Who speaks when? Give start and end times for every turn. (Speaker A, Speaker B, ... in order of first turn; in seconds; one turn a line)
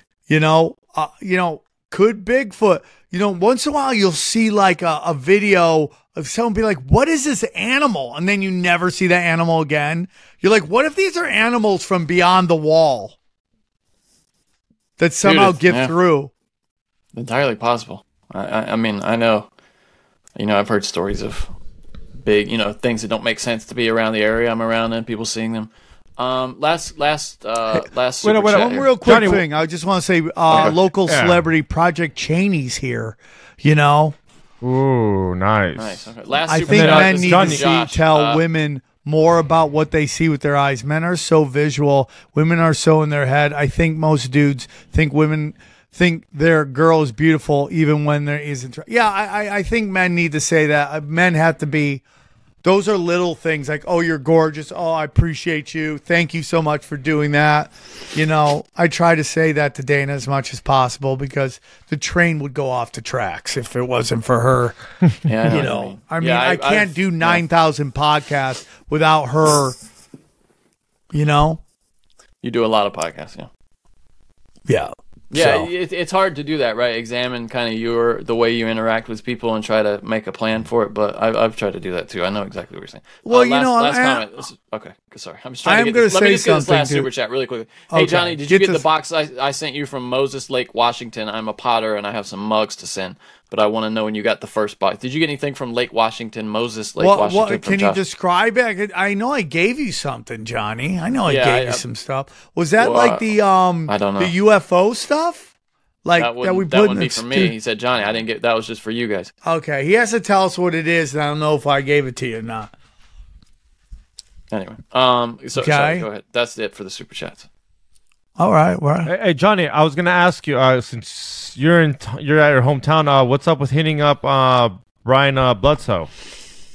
Speaker A: 0.3-13.2
Speaker A: 15.0-16.3
Speaker B: 15.2-15.9
Speaker B: 17.1-19.5
Speaker B: 20.4-21.5
Speaker B: 22.2-28.9
Speaker C: 28.2-29.4
Speaker A: 28.6-34.2
Speaker C: 31.1-31.4
Speaker C: 34.6-36.1
Speaker B: 35.8-38.4
Speaker A: 36.5-52.0
Speaker C: 36.7-37.7
Speaker A: 52.6-64.8
Speaker B: 65.3-67.4
Speaker A: 65.5-69.8
Speaker A: 71.1-71.6
Speaker B: 72.4-73.5
Speaker A: 74.7-75.7
Speaker B: 75.3-98.0
Speaker A: 83.2-84.3
Speaker A: 85.7-87.1
Speaker A: 87.9-88.8
Speaker A: 97.0-105.5
Speaker B: 101.3-101.8
Speaker B: 102.8-103.3
Speaker B: 103.9-104.3
Speaker A: 106.0-107.5
Speaker B: 106.2-109.3
Speaker A: 109.4-112.7
Speaker B: 114.5-117.5
Speaker A: 115.6-116.1
Speaker A: 118.4-119.1
Speaker C: 119.1-126.1